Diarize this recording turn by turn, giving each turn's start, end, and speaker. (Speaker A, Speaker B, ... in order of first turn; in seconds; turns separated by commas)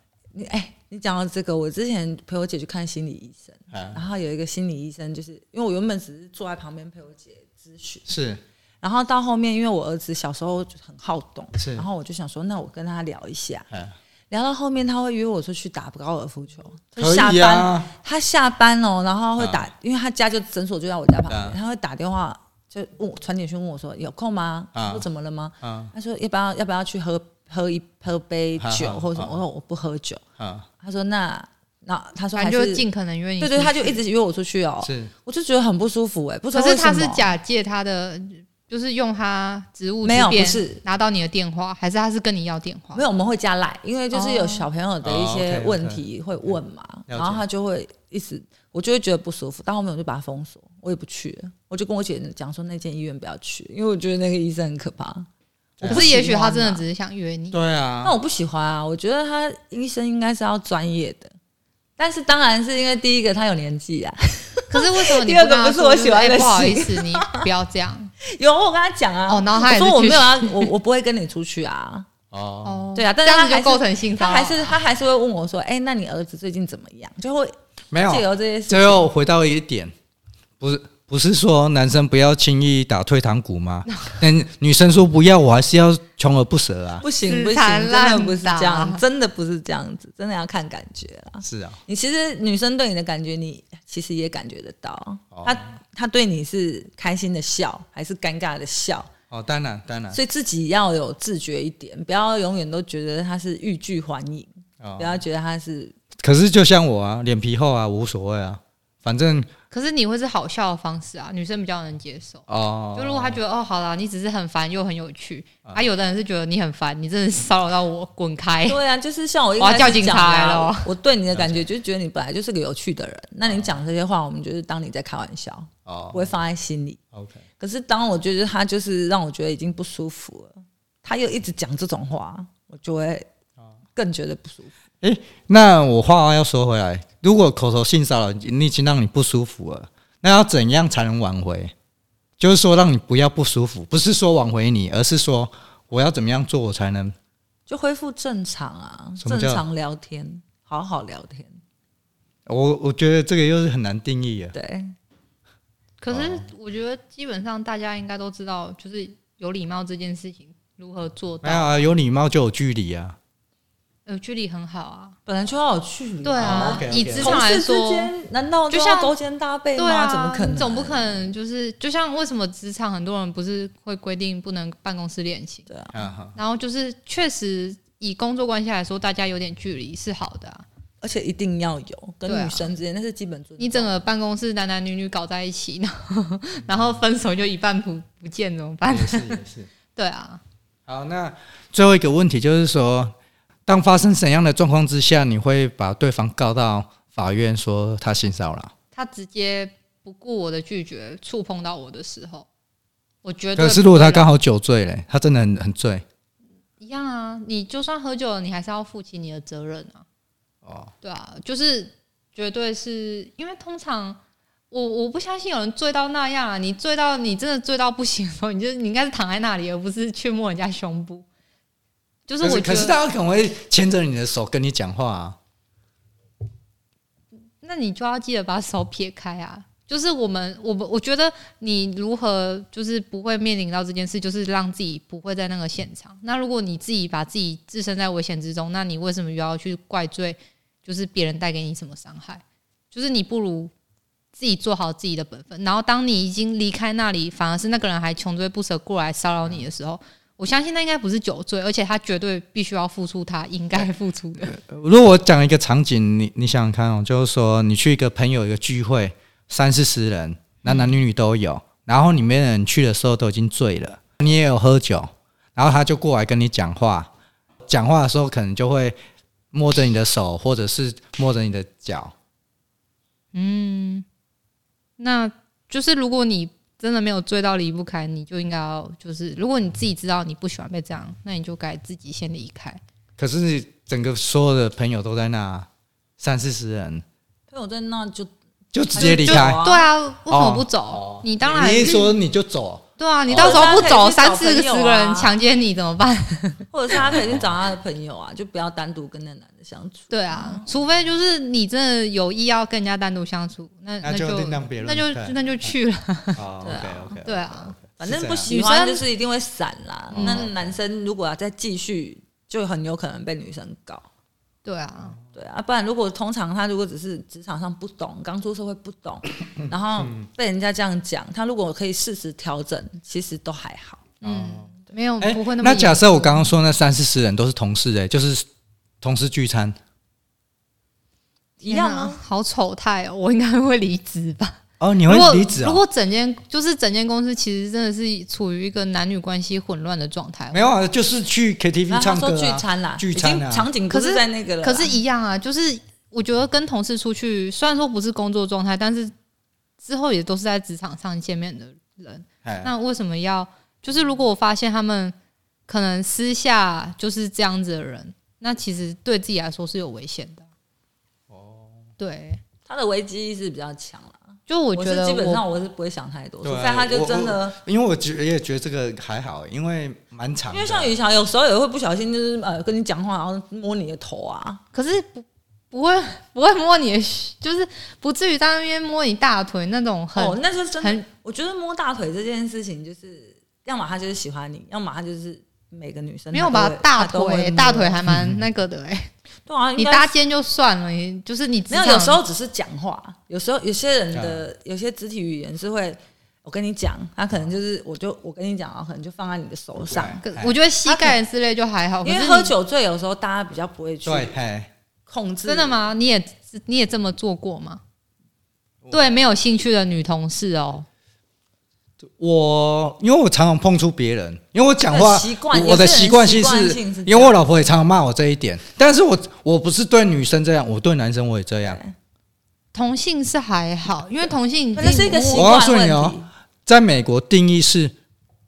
Speaker A: 0.3-8.1, Speaker B: 3.7-4.0, Speaker B: 8.1-8.4, Speaker A: 8.8-13.7, Speaker B: 11.6-11.8, Speaker A: 14.3-30.2, Speaker B: 17.0-17.9, Speaker B: 19.4-19.6, Speaker B: 21.3-21.6, Speaker B: 24.7-25.0, Speaker B: 25.6-25.9, Speaker B: 28.6-29.3, Speaker B: 30.4-30.7, Speaker A: 30.8-32.8, Speaker C: 32.4-34.0, Speaker A: 33.4-37.3, Speaker B: 34.8-35.1, Speaker C: 36.5-43.0, Speaker A: 40.0-40.8, Speaker A: 42.9-55.3, Speaker C: 44.1-44.7, Speaker B: 45.0-46.0, Speaker B: 47.1-47.4, Speaker B: 55.8-56.0, Speaker A: 55.8-56.8, Speaker C: 55.8-57.6, Speaker B: 57.5-58.1, Speaker A: 58.0-61.3, Speaker A: 62.0-67.4, Speaker C: 64.7-68.1, Speaker A: 68.2-72.1, Speaker C: 69.3-70.7, Speaker B: 72.3-72.8, Speaker C: 72.6-74.8, Speaker A: 72.9-79.1, Speaker B: 77.9-79.9, Speaker B: 80.6-87.0, Speaker A: 87.0-99.1, Speaker C: 87.2-89.0, Speaker B: 91.4-91.8, Speaker B: 95.3-95.6, Speaker B: 99.3-100.2, Speaker A: 100.1-105.9, Speaker B: 104.8-105.2, Speaker B: 106.2-109.5, Speaker C: 109.7-118.8, Speaker B: 112.5-113.4, Speaker A: 118.7-127.0, Speaker C: 119.6-120.9, Speaker B: 121.3-121.6, Speaker B: 125.8-126.3, Speaker B: 127.1-127.4, Speaker A: 127.6-133.3, Speaker A: 133.9-134.7, Speaker B: 135.0-141.7, Speaker B: 142.4-147.1, Speaker A: 147.7-151.6, Speaker B: 149.2-149.6, Speaker B: 152.4-154.5, Speaker A: 154.5-154.9, Speaker C: 156.0-161.7, Speaker B: 156.1-156.4, Speaker B: 161.4-163.2, Speaker C: 164.1-165.2, Speaker A: 165.2-171.3, Speaker C: 166.2-168.1, Speaker B: 166.4-167.4, Speaker C: 168.7-169.1, Speaker C: 169.8-175.7, Speaker A: 175.7-176.0, Speaker B: 175.9-176.3, Speaker C: 176.3-180.6, Speaker A: 181.0-183.9, Speaker C: 182.3-182.7, Speaker C: 183.6-189.4, Speaker B: 188.9-189.7, Speaker C: 189.9-190.4, Speaker B: 190.9-193.1, Speaker B: 193.7-198.7, Speaker C: 198.9-202.5, Speaker C: 203.2-204.3, Speaker B: 203.6-206.0, Speaker C: 206.8-210.0, Speaker B: 210.6-210.9, Speaker C: 211.0-214.2, Speaker C: 214.7-221.2, Speaker C: 222.3-222.9, Speaker B: 222.4-225.4, Speaker C: 227.6-243.7, Speaker C: 244.3-254.6, Speaker B: 254.4-267.1, Speaker C: 260.6-260.9, Speaker B: 267.6-269.0, Speaker B: 269.5-272.1, Speaker C: 273.3-274.0, Speaker C: 275.0-282.8, Speaker B: 283.2-285.7, Speaker B: 286.2-287.0, Speaker A: 287.5-288.3, Speaker B: 288.7-289.6, Speaker A: 288.9-289.9, Speaker C: 288.9-292.1, Speaker B: 290.3-293.7, Speaker C: 293.0-296.6, Speaker A: 293.3-295.3, Speaker A: 296.7-300.7, Speaker B: 297.0-297.4, Speaker C: 300.1-306.4, Speaker B: 304.0-305.3, Speaker B: 306.4-308.5, Speaker A: 306.6-307.2, Speaker C: 307.2-307.7, Speaker A: 308.0-314.1, Speaker C: 308.5-309.0, Speaker B: 310.1-310.6, Speaker C: 310.1-310.4, Speaker C: 314.6-315.1, Speaker A: 315.3-324.1, Speaker B: 319.6-320.2, Speaker C: 324.2-326.4, Speaker B: 324.2-324.7, Speaker B: 325.2-328.4, Speaker B: 329.0-329.8, Speaker C: 331.6-340.6, Speaker A: 331.6-332.2, Speaker B: 334.8-335.8, Speaker B: 340.5-343.7, Speaker A: 341.9-344.9, Speaker C: 343.9-349.1, Speaker C: 349.8-355.1, Speaker B: 352.4-352.7, Speaker C: 355.7-360.4, Speaker B: 361.3-361.8, Speaker C: 362.0-362.4, Speaker A: 362.6-367.6, Speaker C: 364.5-365.4, Speaker B: 366.4-370.9, Speaker A: 370.5-374.6, Speaker C: 374.7-381.0, Speaker A: 380.1-388.0, Speaker C: 386.3-389.1, Speaker B: 388.1-388.4, Speaker A: 389.4-390.1, Speaker C: 389.8-392.2, Speaker A: 391.7-400.2, Speaker B: 394.1-394.4, Speaker B: 399.9-400.5, Speaker C: 400.2-402.5, Speaker A: 400.8-401.2, Speaker A: 402.0-404.4, Speaker B: 404.0-404.7, Speaker A: 405.1-405.8, Speaker C: 405.4-407.8, Speaker C: 408.9-410.9, Speaker B: 412.0-421.8, Speaker A: 414.9-417.4, Speaker A: 421.6-421.9, Speaker C: 422.7-425.5, Speaker A: 424.7-426.3, Speaker B: 425.3-427.9